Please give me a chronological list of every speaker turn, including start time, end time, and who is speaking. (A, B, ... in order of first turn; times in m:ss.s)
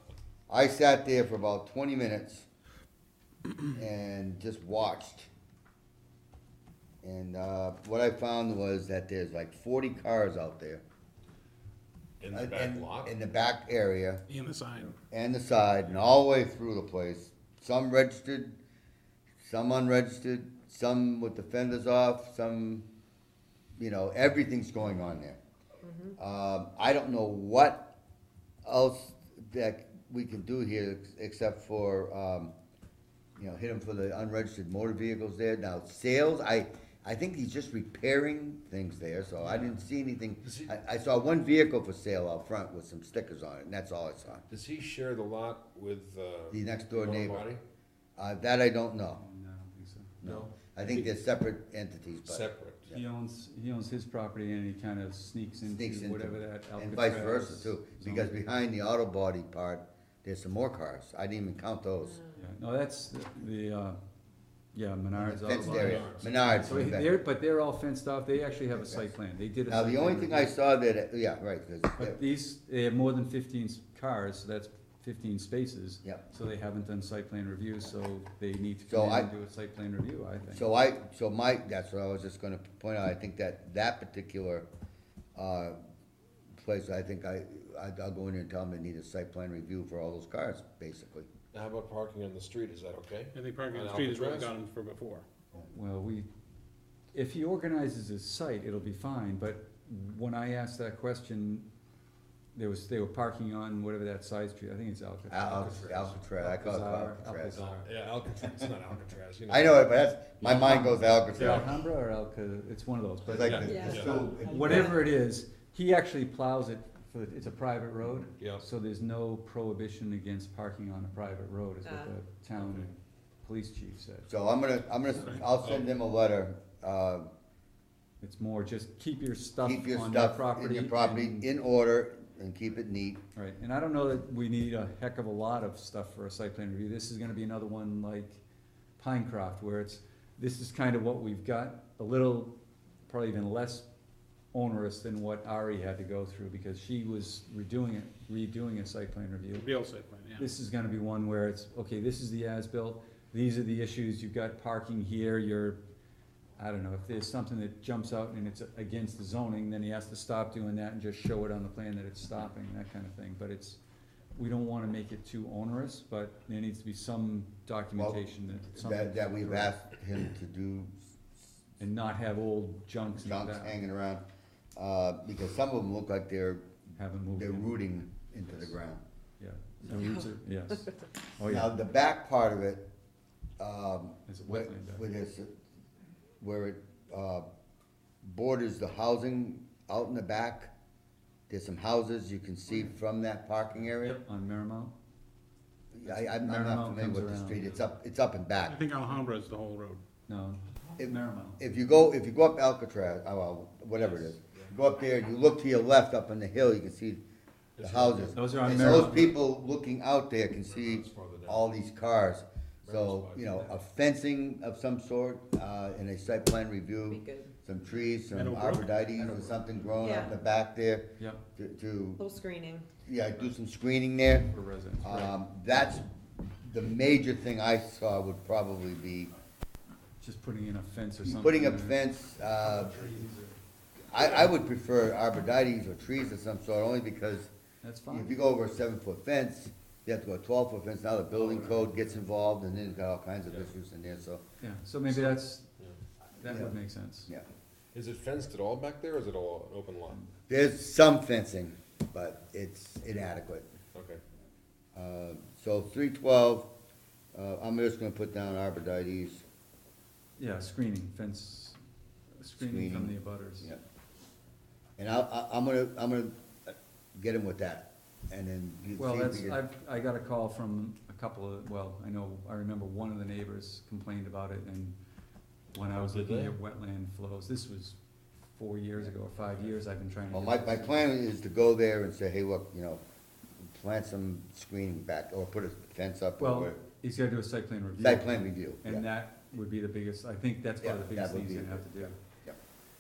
0:00.5-0:02.4 A
0:03.7-0:05.3 A
0:07.0-0:10.8 A
0:12.2-0:13.1 B
0:12.3-0:14.2 A
0:14.3-0:15.0 C
0:15.1-0:18.6 A
0:19.4-0:22.8 A
0:23.8-0:25.4 A
0:25.8-0:26.1 D
0:26.2-0:27.9 A
0:28.6-0:32.5 A
0:33.4-0:44.4 A
0:40.4-0:40.7 B
0:44.5-0:47.6 B
0:46.5-0:47.5 A
0:48.2-0:49.2 A
0:49.1-0:50.1 E
0:50.2-0:53.0 A
0:50.2-0:51.1 B
0:52.2-0:52.8 B
0:52.9-0:58.3 E
0:55.6-1:02.2 A
1:02.3-1:04.0 E
1:04.7-1:10.5 E
1:05.1-1:07.2 A
1:05.6-1:06.4 B
1:08.7-1:09.1 A
1:09.7-1:12.2 A
1:12.0-1:20.7 E
1:18.9-1:19.3 A
1:20.5-1:24.7 A
1:25.4-1:25.8 A
1:26.6-1:31.3 A
1:31.5-1:34.6 B
1:33.3-1:35.2 C
1:35.7-1:36.3 E
1:37.1-1:41.6 E
1:42.5-1:47.9 E
1:45.3-1:47.6 A
1:45.6-1:46.1 B
1:47.5-1:49.9 B
1:49.5-1:51.7 A
1:50.4-2:04.3 E
1:53.2-1:55.0 A
1:53.3-1:54.3 B
1:53.6-1:54.9 D
1:58.4-1:58.6 B
2:01.8-2:02.1 D
2:02.6-2:02.8 B
2:04.3-2:07.3 A
2:08.2-2:11.4 E
2:09.6-2:13.2 A
2:13.3-2:18.4 E
2:19.0-2:22.5 E
2:23.1-2:23.9 E
2:24.5-2:29.7 E
2:29.5-2:30.5 C
2:30.4-2:35.8 E
2:36.6-2:43.8 E
2:44.3-2:49.7 E
2:48.0-2:48.2 A
2:48.7-2:51.0 A
2:51.8-2:53.8 E
2:53.2-2:54.2 A
2:54.8-2:56.6 A
2:57.0-2:57.7 E
2:57.3-2:59.0 A
2:59.4-3:01.7 E
3:01.4-3:02.8 A
3:03.6-3:05.5 A
3:04.3-3:05.0 E
3:06.4-3:07.4 A
3:08.2-3:10.7 A
3:11.5-3:14.2 A
3:14.0-3:14.9 E
3:15.9-3:18.8 A
3:16.0-3:17.6 E
3:18.6-3:20.0 C
3:20.3-3:21.6 E
3:21.0-3:27.2 A
3:23.9-3:24.7 B
3:27.8-3:29.2 B
3:27.8-3:42.2 A
3:28.3-3:29.4 E
3:30.6-3:31.7 B
3:32.8-3:33.7 B
3:37.1-3:37.5 D
3:38.3-3:38.9 C
3:39.2-3:39.6 E
3:40.0-3:40.3 D
3:41.2-3:41.4 E
3:42.2-3:42.9 D
3:43.0-3:44.5 A
3:44.5-3:45.4 E
3:45.0-3:49.3 A
3:50.2-3:52.0 E
3:51.2-3:53.1 A
3:52.6-3:53.6 E
3:54.1-3:57.5 A
3:57.8-3:58.3 E
3:58.1-4:04.4 A
4:01.3-4:02.2 E
4:04.6-4:05.7 E
4:06.4-4:07.3 E
4:06.4-4:06.7 A
4:07.9-4:10.2 B
4:10.5-4:13.7 A
4:13.9-4:14.2 B
4:14.9-4:16.7 A
4:17.3-4:19.4 A
4:20.4-4:21.8 E
4:22.4-4:23.7 E
4:22.6-4:23.8 A
4:25.0-4:29.6 A
4:29.0-4:35.0 E
4:35.7-4:38.0 E
4:35.8-4:36.6 B
4:38.5-4:41.0 E
4:40.3-4:43.0 A
4:43.6-4:46.8 A
4:46.4-4:52.2 E
4:48.0-4:49.1 A
4:50.8-4:52.6 A